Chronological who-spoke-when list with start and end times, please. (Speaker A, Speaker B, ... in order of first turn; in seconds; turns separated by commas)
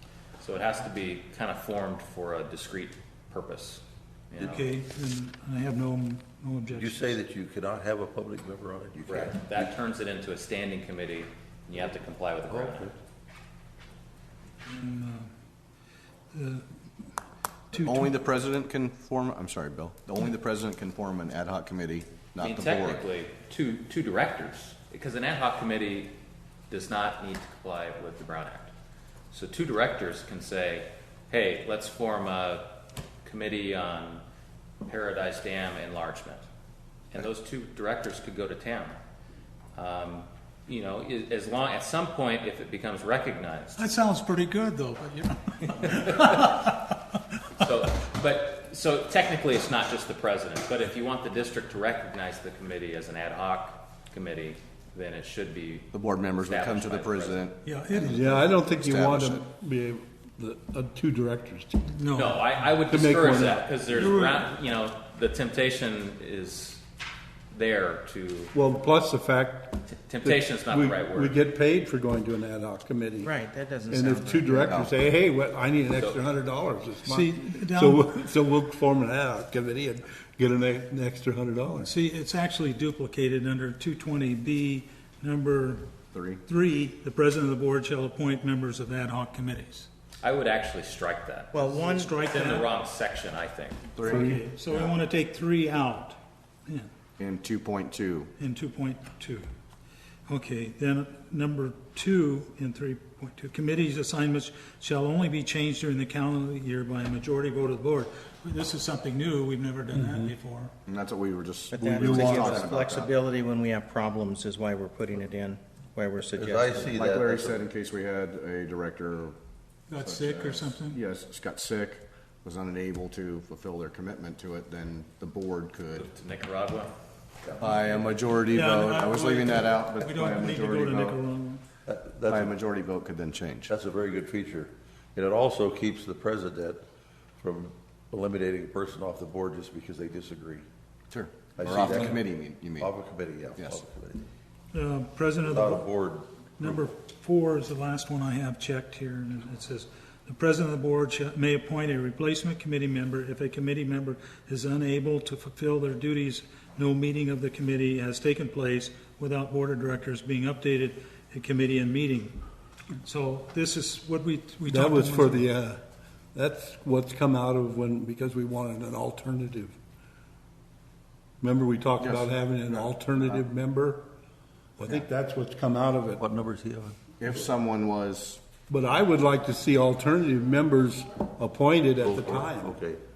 Speaker A: 0.4-4.7, Speaker B: 4.4-7.2, Speaker C: 6.7-9.4, Speaker A: 9.1-13.0, Speaker C: 12.5-12.9, Speaker B: 14.7-15.3, Speaker B: 16.3-16.7, Speaker B: 17.7-18.1, Speaker D: 17.7-23.1, Speaker A: 22.4-26.1, Speaker A: 26.7-28.7, Speaker A: 29.3-34.2, Speaker A: 34.9-36.5, Speaker A: 37.1-39.0, Speaker A: 39.8-43.8, Speaker B: 43.8-46.9, Speaker A: 45.7-46.6, Speaker A: 47.6-55.9, Speaker D: 55.9-59.5, Speaker A: 56.4-57.5, Speaker B: 57.6-58.3, Speaker E: 58.0-61.9, Speaker B: 61.9-62.5, Speaker A: 62.1-66.8, Speaker E: 62.9-63.7, Speaker B: 63.9-64.5, Speaker A: 67.5-68.5, Speaker E: 68.5-73.3, Speaker A: 69.9-71.4, Speaker F: 73.2-74.8, Speaker E: 73.9-81.9, Speaker D: 74.7-74.9, Speaker A: 76.0-76.2, Speaker B: 77.0-78.1, Speaker B: 81.8-85.9, Speaker D: 86.1-86.4, Speaker B: 86.5-89.9, Speaker A: 90.2-93.9, Speaker F: 91.5-92.2, Speaker B: 91.7-92.7, Speaker D: 93.9-94.5, Speaker B: 94.0-96.9, Speaker D: 97.2-98.3, Speaker B: 98.4-99.5, Speaker B: 100.3-110.7, Speaker E: 109.9-110.3, Speaker D: 110.9-113.1, Speaker F: 111.7-117.0, Speaker E: 111.8-112.6, Speaker C: 116.4-117.7, Speaker D: 117.0-119.4, Speaker B: 119.9-121.0, Speaker D: 120.0-126.1, Speaker A: 125.9-126.9, Speaker D: 127.6-131.2, Speaker B: 128.5-131.6, Speaker C: 131.9-132.6, Speaker D: 132.3-133.8, Speaker C: 133.7-136.8, Speaker C: 137.4-140.7, Speaker D: 141.1-142.9, Speaker C: 141.6-142.2, Speaker C: 142.8-144.3, Speaker D: 143.6-143.8, Speaker B: 144.7-145.9, Speaker C: 145.4-146.9, Speaker B: 146.6-162.3, Speaker B: 163.0-165.4, Speaker E: 164.7-165.8, Speaker E: 166.3-169.8, Speaker E: 171.4-174.1, Speaker D: 172.0-172.8, Speaker E: 174.8-176.2, Speaker C: 176.2-177.0, Speaker D: 177.2-178.4, Speaker E: 178.7-182.8, Speaker C: 182.0-183.0